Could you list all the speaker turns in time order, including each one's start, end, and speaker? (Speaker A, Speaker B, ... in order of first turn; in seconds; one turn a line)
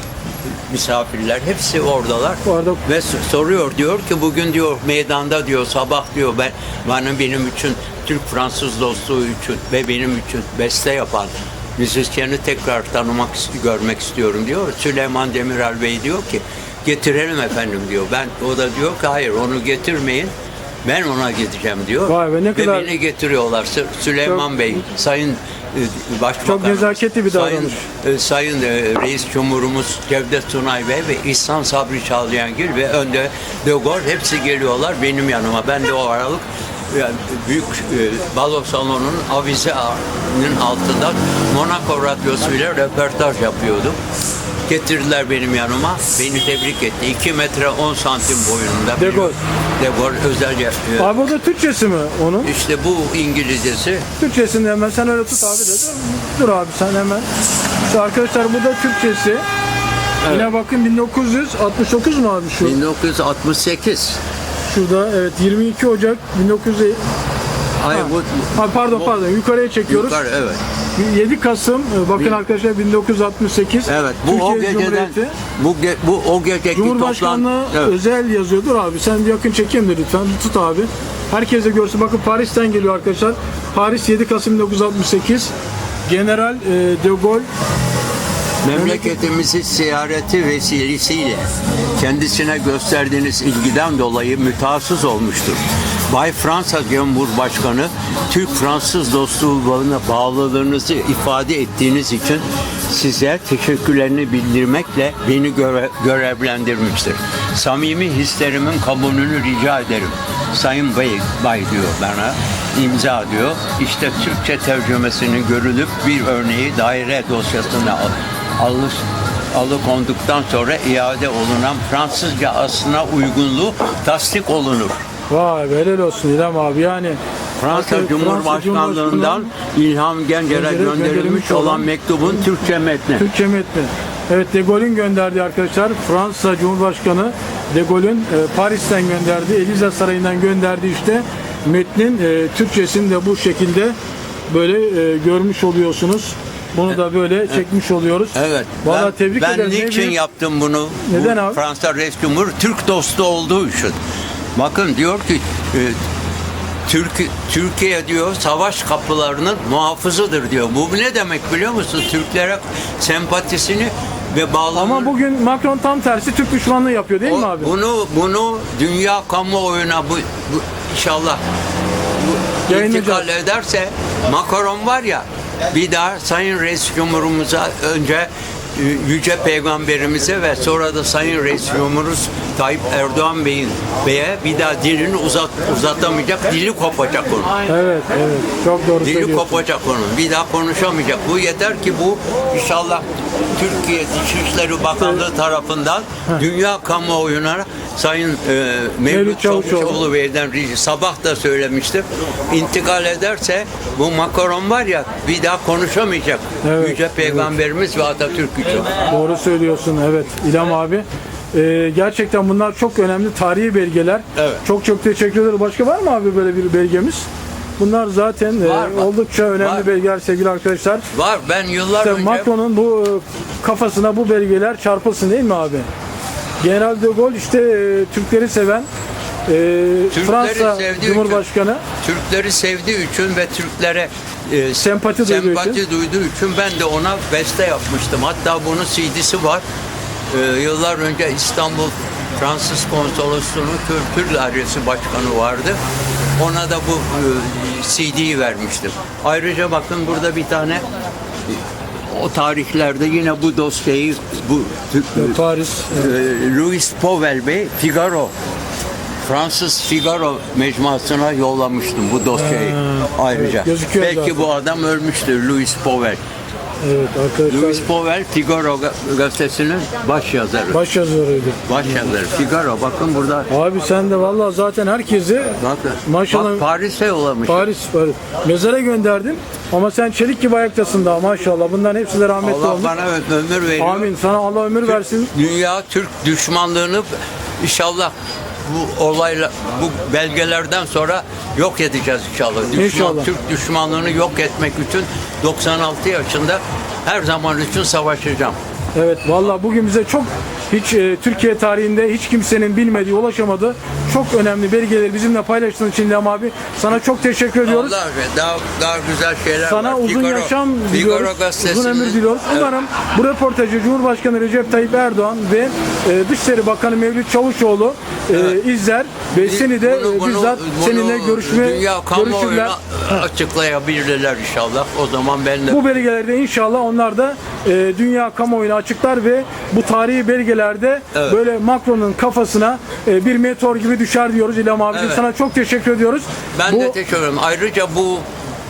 Speaker A: 0.7-20.3
Speaker B: 2.4-2.8
Speaker A: 20.8-44.0
Speaker B: 22.1-22.9
Speaker B: 26.4-27.8
Speaker A: 44.7-51.1
Speaker B: 49.0-49.4
Speaker B: 51.0-52.5
Speaker A: 52.4-54.0
Speaker B: 54.2-57.3
Speaker B: 57.8-59.4
Speaker A: 60.2-60.5
Speaker B: 60.3-62.8
Speaker A: 62.6-64.2
Speaker B: 64.7-67.0
Speaker A: 67.8-69.2
Speaker B: 67.9-70.2
Speaker A: 69.9-70.6
Speaker B: 71.0-75.3
Speaker A: 72.1-72.4
Speaker A: 73.8-78.0
Speaker B: 76.7-85.5
Speaker B: 86.1-87.5
Speaker A: 88.6-91.4
Speaker B: 88.7-89.2
Speaker A: 92.0-125.0
Speaker B: 125.3-127.2
Speaker A: 127.6-133.2
Speaker B: 127.7-129.5
Speaker B: 130.5-131.9
Speaker B: 133.2-143.9
Speaker B: 144.5-150.2
Speaker A: 148.3-153.9
Speaker B: 151.1-151.6
Speaker A: 154.5-155.9
Speaker A: 156.9-165.1
Speaker B: 164.7-167.7
Speaker A: 167.2-171.4
Speaker A: 172.2-187.5
Speaker B: 172.7-173.3
Speaker B: 187.7-189.6
Speaker A: 189.0-209.0
Speaker B: 199.1-200.0
Speaker B: 206.6-207.5
Speaker B: 209.1-217.2
Speaker A: 214.3-214.6
Speaker B: 217.8-221.1
Speaker A: 218.6-219.9
Speaker A: 221.1-222.5
Speaker B: 222.0-225.9
Speaker B: 226.6-228.9
Speaker B: 229.5-231.8
Speaker A: 230.1-231.4
Speaker A: 232.0-239.6
Speaker B: 234.8-235.8
Speaker A: 240.3-245.8
Speaker A: 246.4-250.8
Speaker A: 251.5-255.4
Speaker B: 255.2-256.1
Speaker A: 255.9-258.3
Speaker A: 259.2-266.2
Speaker B: 262.4-264.4
Speaker B: 266.8-267.9
Speaker A: 267.5-270.8
Speaker B: 270.7-271.6
Speaker A: 271.7-273.5
Speaker B: 273.5-276.6
Speaker A: 275.6-277.7
Speaker B: 277.4-282.9
Speaker A: 282.4-284.1
Speaker B: 283.8-285.3
Speaker A: 284.8-287.1
Speaker A: 287.6-298.6
Speaker B: 292.7-293.3
Speaker B: 298.9-307.9
Speaker A: 307.6-312.7
Speaker B: 309.6-322.7
Speaker A: 318.3-318.6
Speaker A: 319.3-326.0
Speaker B: 325.7-336.9
Speaker A: 331.1-331.4
Speaker A: 334.9-335.2
Speaker A: 336.5-338.2